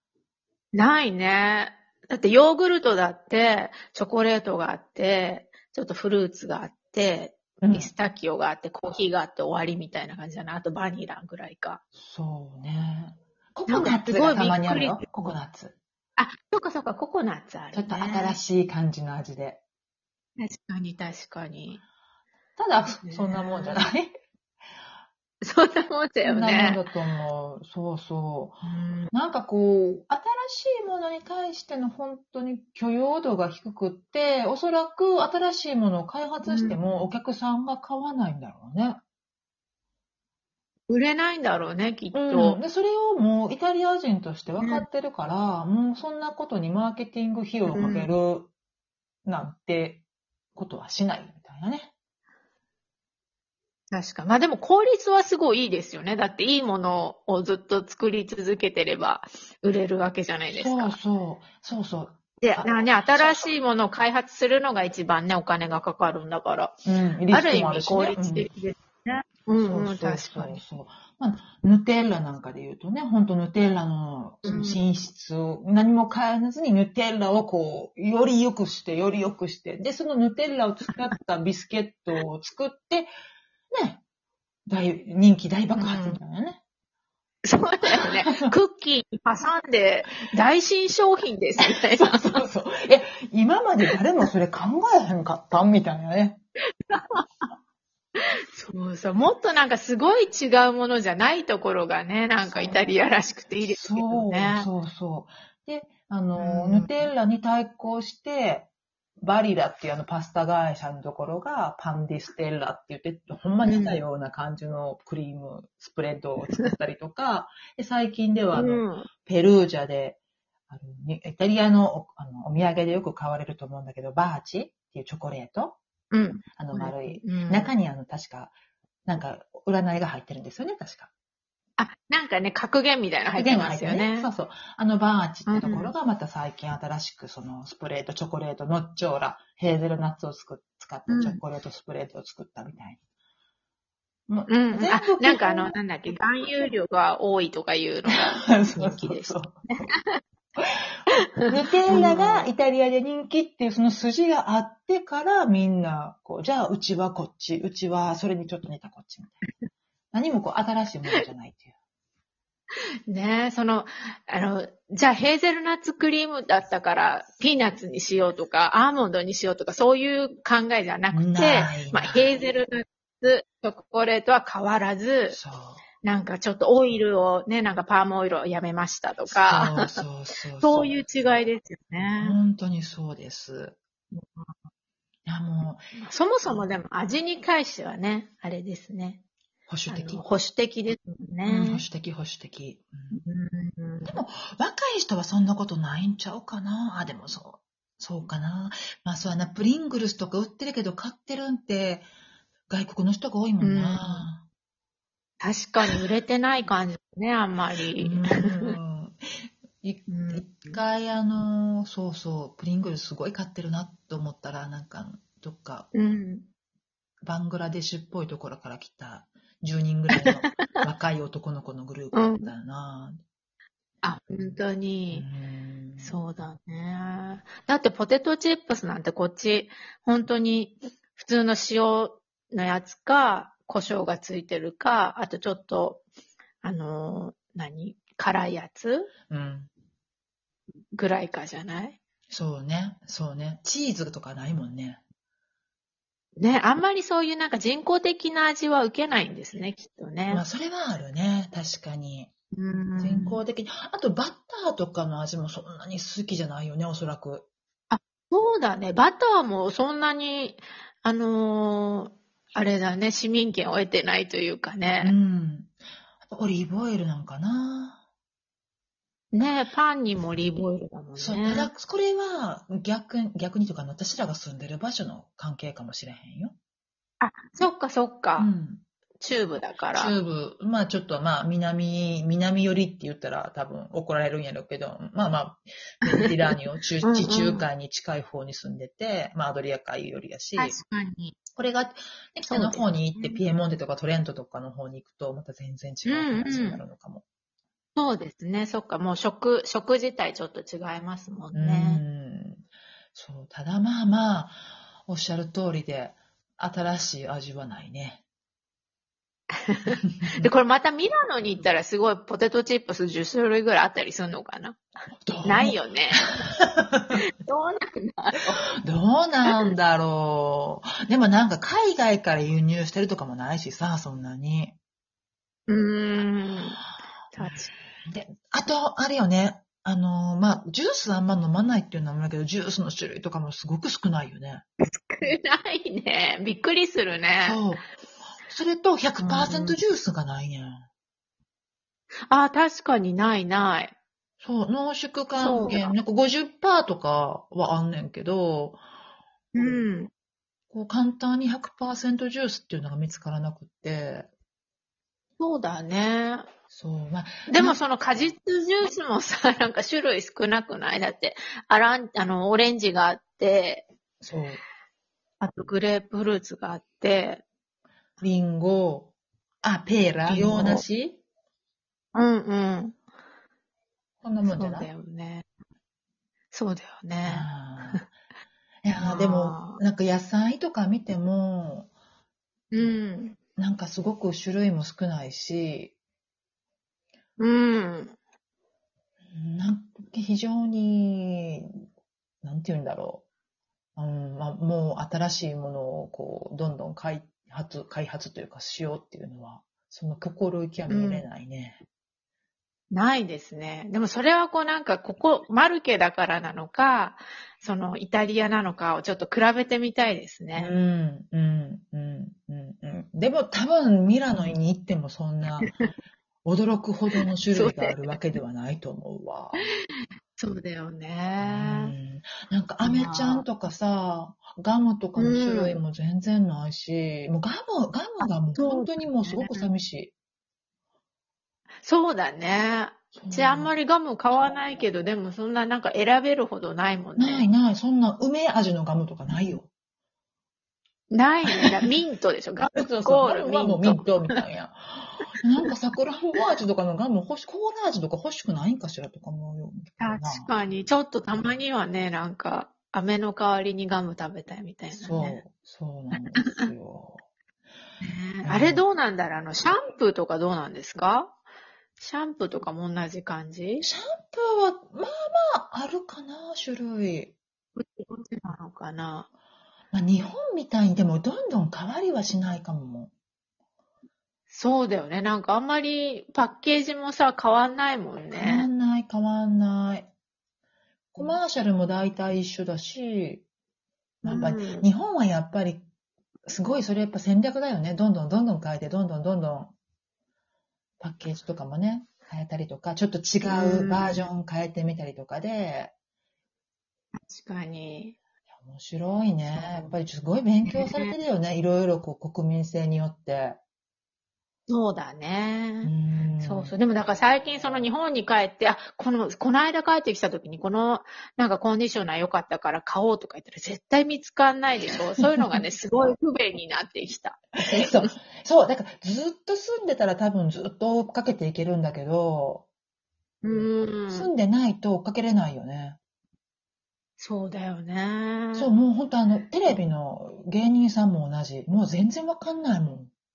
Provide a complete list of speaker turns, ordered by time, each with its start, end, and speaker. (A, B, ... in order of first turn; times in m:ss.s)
0:00.7-0:11.8 A
0:07.6-0:07.9 B
0:12.0-0:15.8 B
0:13.7-0:15.4 A
0:16.2-0:18.4 A
0:17.7-0:19.6 B
0:20.4-0:21.8 A
0:22.6-0:24.2 B
0:23.0-0:23.8 A
0:25.4-0:26.8 A
0:26.2-0:28.6 B
0:28.6-0:29.1 A
0:29.1-0:39.0 B
0:36.4-0:36.8 A
0:40.9-0:42.6 A
0:42.1-0:48.5 B
0:47.7-0:48.1 A
0:49.2-0:50.0 B
0:50.5-0:51.9 B
0:53.9-1:01.0 A
1:00.5-1:03.5 B
1:02.4-1:06.7 A
1:06.8-1:08.5 B
1:07.3-1:10.6 A
1:09.6-1:23.1 B
1:14.4-1:14.8 A
1:23.7-1:24.0 B
1:24.7-1:26.6 B
1:25.7-1:26.2 A
1:27.4-1:32.4 A
1:27.8-1:28.6 B
1:31.6-1:36.4 B
1:36.8-1:37.5 A
1:38.5-1:44.7 A
1:42.4-1:43.0 B
1:43.6-2:05.8 B
1:46.4-1:47.1 A
1:53.6-1:54.0 A
1:58.5-1:59.1 A
2:06.1-2:07.7 A
2:06.6-2:08.5 B
2:09.0-2:11.1 B
2:11.8-2:14.3 A
2:13.3-2:23.0 B
2:15.4-2:15.9 A
2:21.1-2:21.4 A
2:24.3-2:25.8 B
2:24.5-2:30.2 A
2:28.1-2:29.6 B
2:30.6-2:39.4 B
2:31.9-2:32.5 A
2:40.1-2:41.7 B
2:43.1-2:55.4 A
2:51.1-2:52.3 B
2:55.3-2:55.8 B
2:56.0-3:00.0 A
2:59.3-3:01.0 B
3:00.6-3:02.4 A
3:02.2-3:03.8 B
3:04.1-3:04.5 A
3:05.2-3:05.8 B
3:06.0-3:09.2 A
3:09.7-3:10.2 B
3:09.9-3:11.8 A
3:11.4-3:13.2 B
3:13.1-3:14.2 A
3:14.0-3:22.1 B
3:22.7-3:24.4 B
3:23.6-3:24.3 A
3:25.4-3:28.7 A
3:28.0-3:29.3 B
3:29.8-3:35.9 B
3:30.1-3:30.8 A
3:35.9-3:36.5 A
3:37.2-3:43.2 B
3:40.2-3:40.8 A
3:42.1-3:42.5 A
3:44.0-3:45.2 A
3:45.1-3:46.2 B
3:46.0-3:56.0 A
3:56.6-3:59.1 A
3:59.3-3:59.7 B
4:00.9-4:02.0 A
4:02.3-4:05.0 B
4:06.4-4:10.4 A
4:10.3-4:12.3 B
4:12.5-4:13.4 A
4:13.0-4:17.5 B
4:17.9-4:25.1 A
4:25.0-4:28.0 B
4:29.3-4:31.7 A
4:31.2-4:36.5 B
4:37.2-4:38.5 A
4:38.4-4:38.8 B
4:39.2-4:40.1 A
4:39.9-4:50.8 B
4:47.0-4:47.7 A
4:50.6-4:51.4 A
4:51.6-4:57.2 B
4:52.5-4:53.4 A
4:56.0-4:56.8 A
4:58.0-5:02.0 A
5:01.5-5:08.2 B
5:09.6-5:14.8 A
5:10.1-5:10.5 B
5:15.2-5:15.8 B
5:15.4-5:16.4 A
5:16.4-5:17.2 B
5:17.1-5:18.6 A
5:18.8-5:24.8 B
5:25.7-5:26.8 A
5:27.3-5:27.7 A
5:27.4-5:34.6 B
5:34.8-5:37.6 A
5:37.4-5:37.9 B
5:38.4-5:40.9 B
5:39.2-5:39.8 A
5:42.3-5:43.9 A
5:44.4-5:48.8 B
5:45.4-5:45.9 A
5:49.5-5:50.1 A
5:50.7-5:54.3 B
5:55.4-5:56.5 A
5:56.7-5:57.8 B
5:57.5-6:03.8 A
6:04.2-6:04.6 B
6:05.4-6:07.4 A
6:08.2-6:11.2 B
6:10.2-6:10.8 A
6:12.1-6:13.0 A
6:14.2-6:14.9 B
6:14.4-6:15.4 A
6:16.5-6:18.0 A
6:17.2-6:18.1 B
6:18.8-6:21.9 B
6:19.0-6:19.8 A
6:22.7-6:23.4 A
6:23.6-6:25.9 B
6:27.4-6:28.2 A
6:29.3-6:31.8 B
6:32.4-6:33.2 B
6:34.0-6:41.8 B
6:40.9-6:41.3 A
6:42.9-6:50.7 A
6:50.5-6:55.7 B
6:56.4-6:59.7 B
6:57.2-6:58.1 A
6:59.9-7:01.9 A
7:01.4-7:10.1 B
7:02.8-7:03.4 A
7:05.2-7:05.8 A
7:08.5-7:09.7 A
7:11.8-7:17.5 A
7:13.1-7:13.7 B
7:17.2-7:19.7 B
7:19.3-7:19.6 A
7:21.1-7:24.4 A
7:21.4-7:22.0 B
7:22.6-7:30.5 B
7:30.0-7:35.4 A
7:34.9-7:37.2 B
7:38.0-7:41.4 A
7:38.4-7:38.8 B
7:42.0-7:43.8 A
7:43.8-7:47.3 B
7:47.8-7:49.3 A
7:49.9-7:53.1 B
7:54.5-7:58.7 A
7:58.3-8:00.1 B
8:01.1-8:03.4 B
8:04.2-8:04.9 A
8:04.2-8:05.8 B
8:06.4-8:09.7 B
8:11.0-8:15.9 B
8:13.4-8:14.3 A
8:17.2-8:18.2 A
8:18.6-8:23.6 B
8:19.5-8:19.9 A
8:20.7-8:21.1 A
8:24.7-8:38.1 A
8:25.8-8:26.8 B
8:27.4-8:27.9 B
8:37.6-8:42.6 B
8:43.4-8:44.3 A
8:44.1-8:46.0 B
8:47.2-8:48.7 A
8:48.5-8:53.1 B